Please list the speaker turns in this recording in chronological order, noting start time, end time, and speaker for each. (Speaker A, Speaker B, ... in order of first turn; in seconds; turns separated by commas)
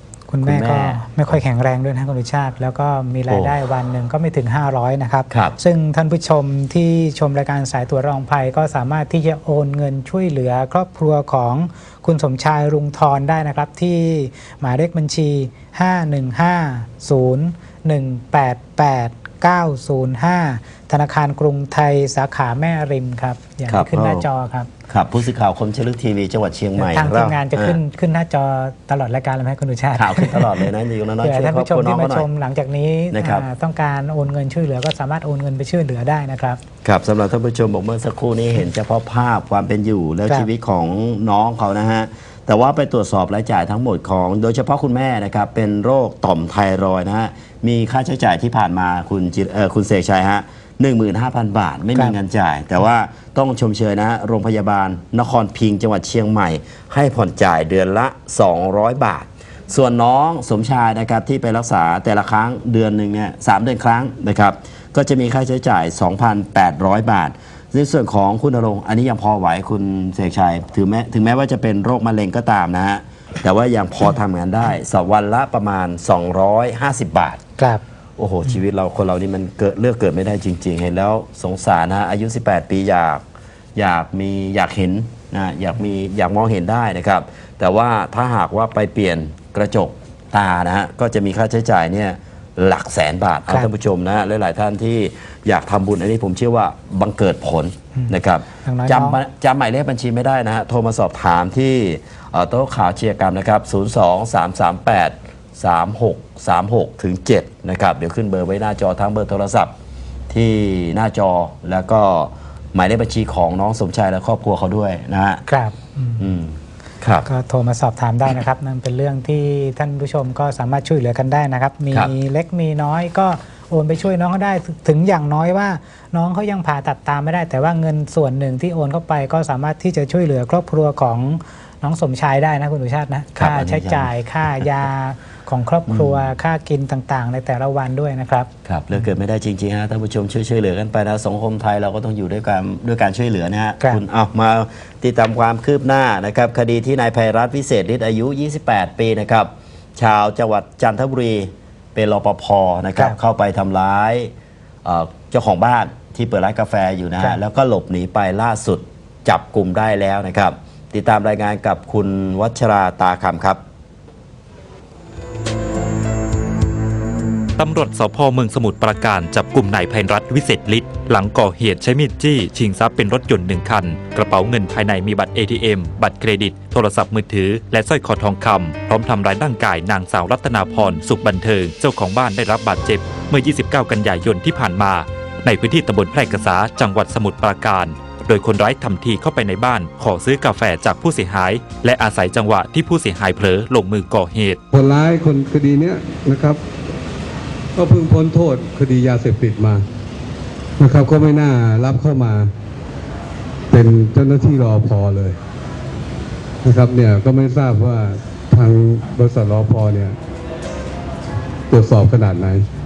Speaker A: 0.3-24.7, Speaker B: 0.4-1.4, Speaker B: 3.3-3.5, Speaker B: 23.7-24.3, Speaker B: 24.9-27.8, Speaker A: 26.8-36.6, Speaker B: 29.9-32.3, Speaker B: 33.1-33.5, Speaker B: 36.8-77.4, Speaker A: 77.6-77.8, Speaker B: 78.2-83.2, Speaker B: 83.8-109.7, Speaker A: 97.9-99.2, Speaker B: 110.3-115.4, Speaker A: 115.5-116.3, Speaker B: 116.2-117.3, Speaker A: 117.2-138.5, Speaker B: 133.4-134.1, Speaker B: 135.9-136.2, Speaker B: 138.7-154.3, Speaker B: 154.8-163.6, Speaker C: 167.6-194.6, Speaker D: 194.7-196.6, Speaker D: 197.8-199.8, Speaker D: 200.8-202.5, Speaker D: 203.7-205.4, Speaker D: 206.6-210.2, Speaker D: 211.7-212.7